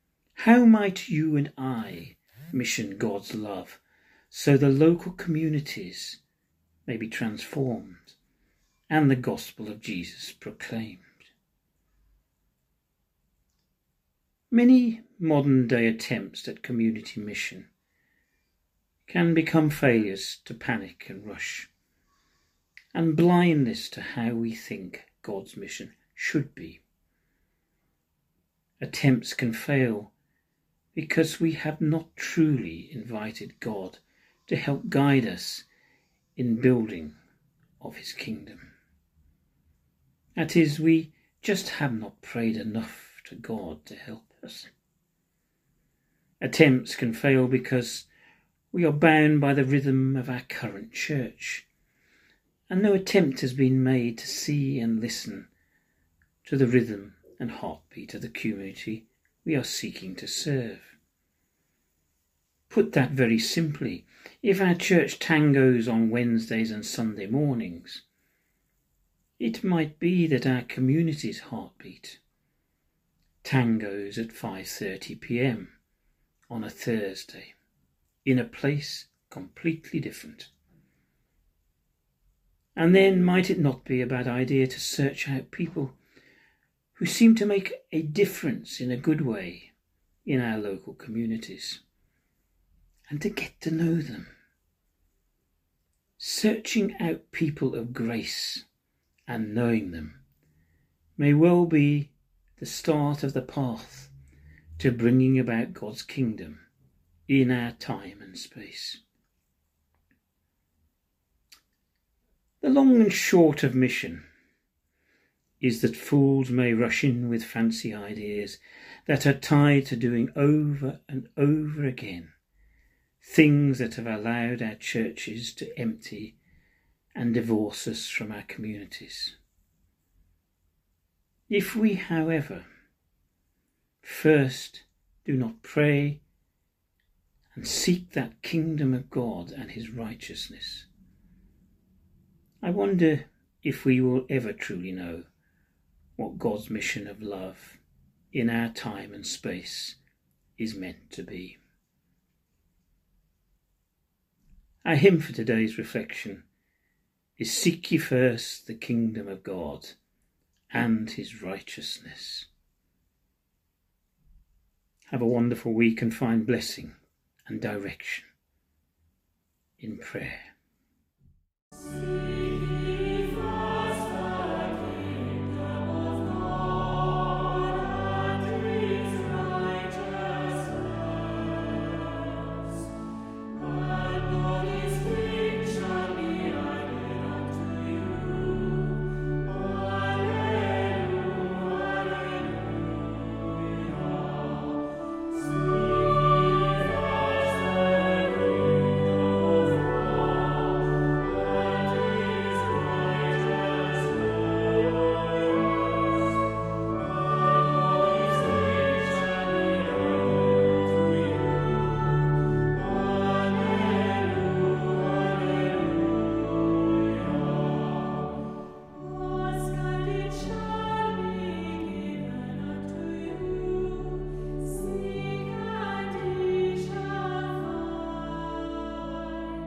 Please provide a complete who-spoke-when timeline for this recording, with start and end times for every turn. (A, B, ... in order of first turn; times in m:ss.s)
0:00.4-0:06.2 A
0:06.8-0:08.2 A
0:08.9-0:11.3 A
0:14.5-0:17.7 A
0:19.0-0:21.7 A
0:22.9-0:26.8 A
0:28.8-0:30.1 A
0:30.9-0:35.7 A
0:36.4-0:37.2 A
0:37.8-0:38.7 A
0:40.4-0:44.7 A
0:46.4-0:48.1 A
0:48.7-0:51.6 A
0:52.7-0:55.5 A
0:56.4-1:01.0 A
1:02.7-1:08.0 A
1:09.4-1:12.2 A
1:13.4-1:15.7 A
1:16.5-1:17.5 A
1:18.2-1:20.5 A
1:22.8-1:26.0 A
1:27.0-1:29.7 A
1:30.2-1:31.8 A
1:33.1-1:34.3 A
1:36.2-1:38.6 A
1:39.3-1:40.2 A
1:41.2-1:44.1 A
1:44.8-1:46.6 A
1:47.3-1:49.0 A
1:52.6-1:54.2 A
1:55.6-2:02.3 A
2:03.2-2:06.4 A
2:07.1-2:09.4 A
2:11.5-2:12.6 A
2:14.0-2:16.2 A
2:17.5-2:20.9 A
2:22.6-2:25.3 A
2:26.2-2:27.8 A
2:28.3-2:30.0 A
2:30.6-2:31.6 A
2:34.8-2:36.4 A
2:37.4-2:40.0 A
2:40.7-2:42.5 A
2:45.1-2:46.9 A
2:47.4-2:48.3 A
2:49.8-2:50.5 A
3:05.2-3:07.2 A
3:08.0-3:08.8 A
3:40.2-3:42.5 A
3:43.2-3:44.2 A
3:45.1-3:48.2 A